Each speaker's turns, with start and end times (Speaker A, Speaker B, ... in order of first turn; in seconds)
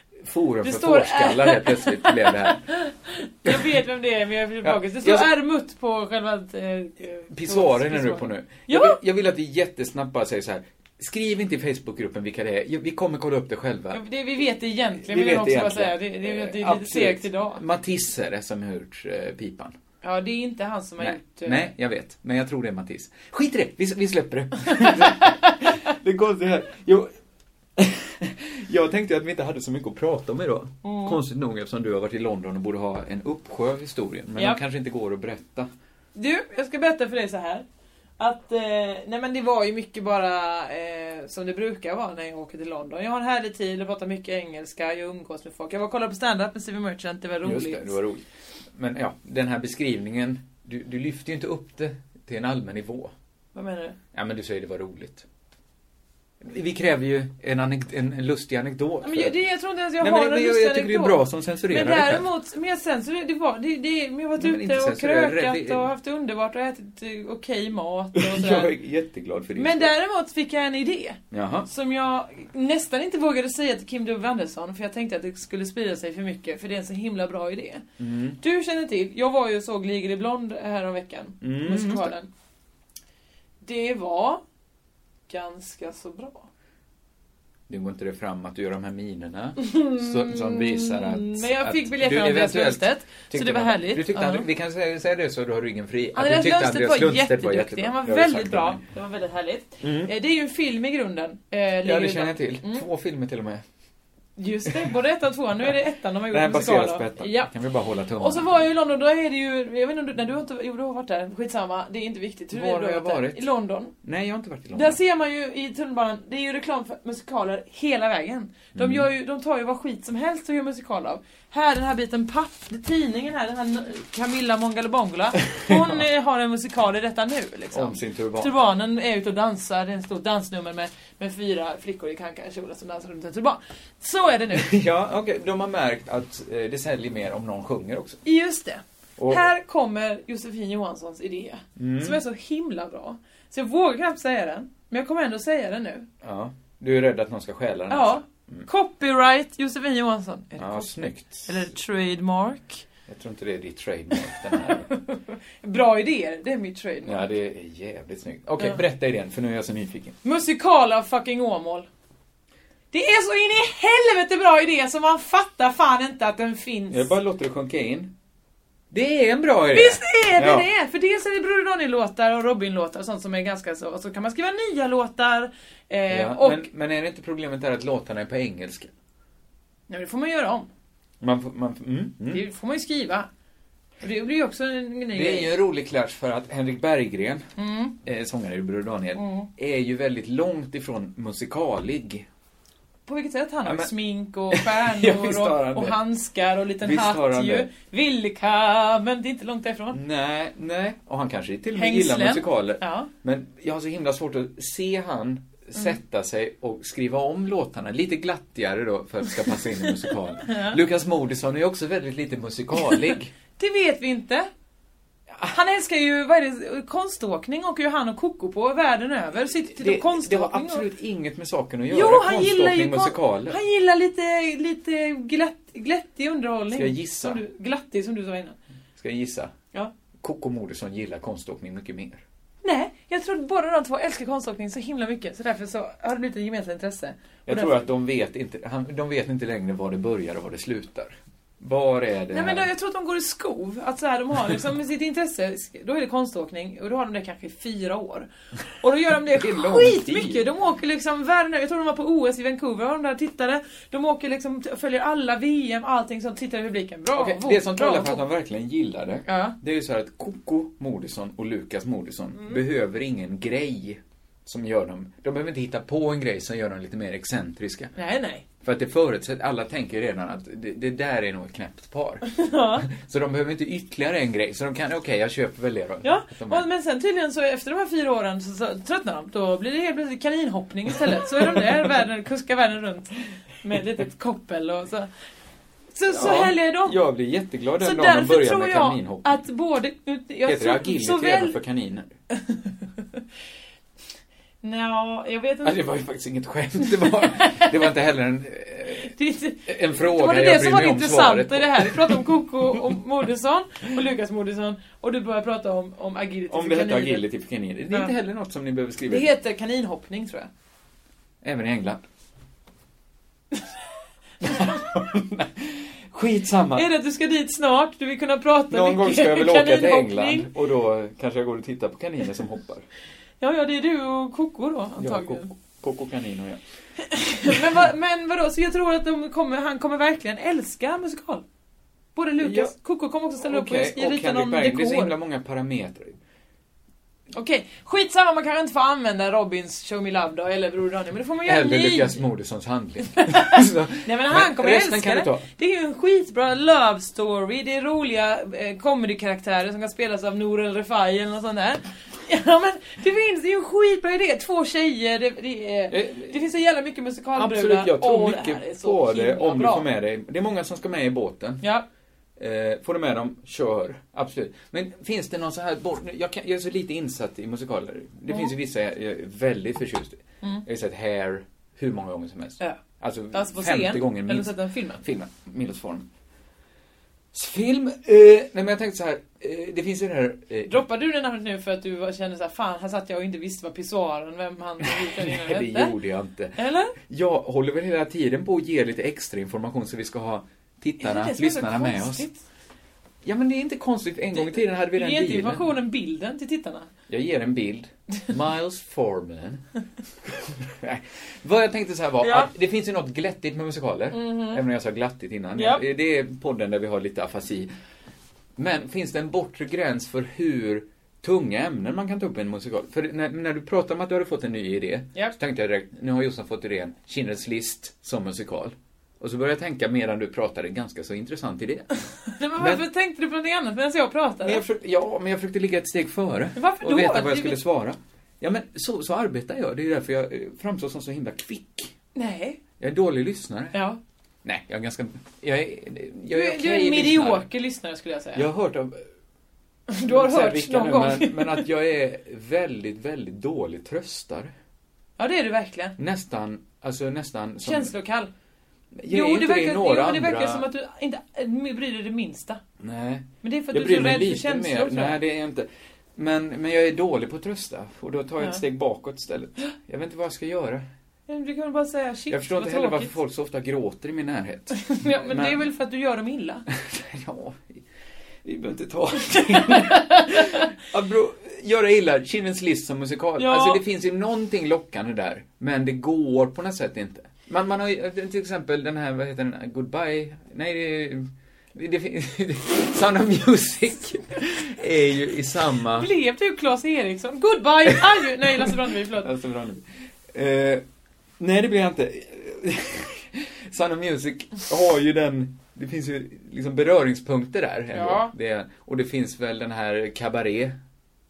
Speaker A: 0.2-2.7, 3.4-3.7, 4.6-5.3, 7.3-14.0, 15.0-19.7, 21.0-27.1, 27.8-35.7, 47.4-53.1, 54.1-55.2, 56.4-59.4, 60.0-62.3, 64.4-65.9, 68.1-69.9, 71.3-71.7, 78.0-78.4, 81.4-82.1, 87.7-98.8, 99.8-100.1, 101.8-103.6, 106.3-108.7, 112.5-113.5, 114.0-115.0, 118.7-119.1, 125.5-126.0, 127.7-128.5, 134.5-138.2, 139.2-139.4, 141.8-142.2, 146.2-148.7, 150.6-151.7, 153.1-154.9, 157.0-160.2, 166.9-168.1, 168.9-170.7, 176.1-178.9, 181.2-182.4, 185.1-187.5, 188.0-192.3, 193.6-193.9, 194.5-196.0, 196.8-197.7, 199.9-213.3, 219.7-223.6, 226.7-227.4, 229.0-229.5, 230.2-232.2, 237.4-242.7, 249.3-250.4, 257.1-267.9, 268.6-272.3, 272.8-276.7, 286.1-289.4, 290.4-292.1, 295.6-299.1, 299.6-302.3, 306.5-309.3, 311.4-312.0, 314.4-316.9, 318.7-322.9, 325.0-326.6, 332.4-332.7, 333.4-336.2, 341.4-345.4, 355.9-356.4, 357.3-361.6, 362.4-376.1, 377.3-380.8, 384.8-392.3, 393.2-395.7, 397.1-399.6, 400.2-407.7, 408.6-421.9, 422.6-422.8, 424.4-431.9, 432.8-433.8, 434.4-437.5, 438.3-439.0, 440.0-444.5, 446.0-447.9, 448.9-450.7, 452.8-460.8, 462.3-465.6, 466.7-467.8, 468.4-486.1, 487.9-490.8, 491.4-500.8
Speaker B: 0.6-9.0, 13.9-17.6, 20.0-21.7, 24.8-25.3, 30.8-31.2, 34.4-34.6, 36.1-37.6, 38.2-48.0, 53.5-54.0, 59.0-68.7, 69.5-77.8, 78.4-82.3, 83.6-84.4, 85.3-86.5, 89.6-94.5, 96.1-102.8, 104.4-107.5, 108.2-113.9, 114.7-134.7, 138.2-146.1, 147.9-152.8, 154.3-157.3, 160.2-161.9, 162.9-167.1, 169.7-176.7, 179.9-180.7, 182.3-183.3, 184.0-185.5, 187.6-187.9, 189.1-189.5, 193.1-200.0, 201.7-203.1, 210.4-210.8, 213.6-214.5, 215.5-220.9, 221.9-228.6, 232.6-237.8, 242.3-248.3, 248.8-258.2, 259.2-259.6, 267.9-268.4, 272.3-272.9, 276.0-285.1, 285.9-287.0, 287.8-291.6, 294.6-295.8, 297.0-297.9, 299.0-307.3, 309.1-310.5, 316.7-320.5, 323.4-325.5, 327.1-331.4, 332.1-335.1, 337.3-342.2, 343.2-359.9, 373.3-375.0, 380.7-385.9, 386.5-386.9, 391.0-392.4, 394.3-396.9, 402.2-402.5, 404.1-404.6, 405.5-405.8, 422.3-424.6, 426.6-427.6, 432.1-432.6, 433.7-434.0, 436.3-438.5, 439.9-441.7, 445.2-446.0, 447.6-448.3, 449.1-452.6, 453.4-455.2, 461.3-463.1, 464.8-466.6, 469.3-470.7, 473.4-473.8, 485.9-489.3, 497.9-498.3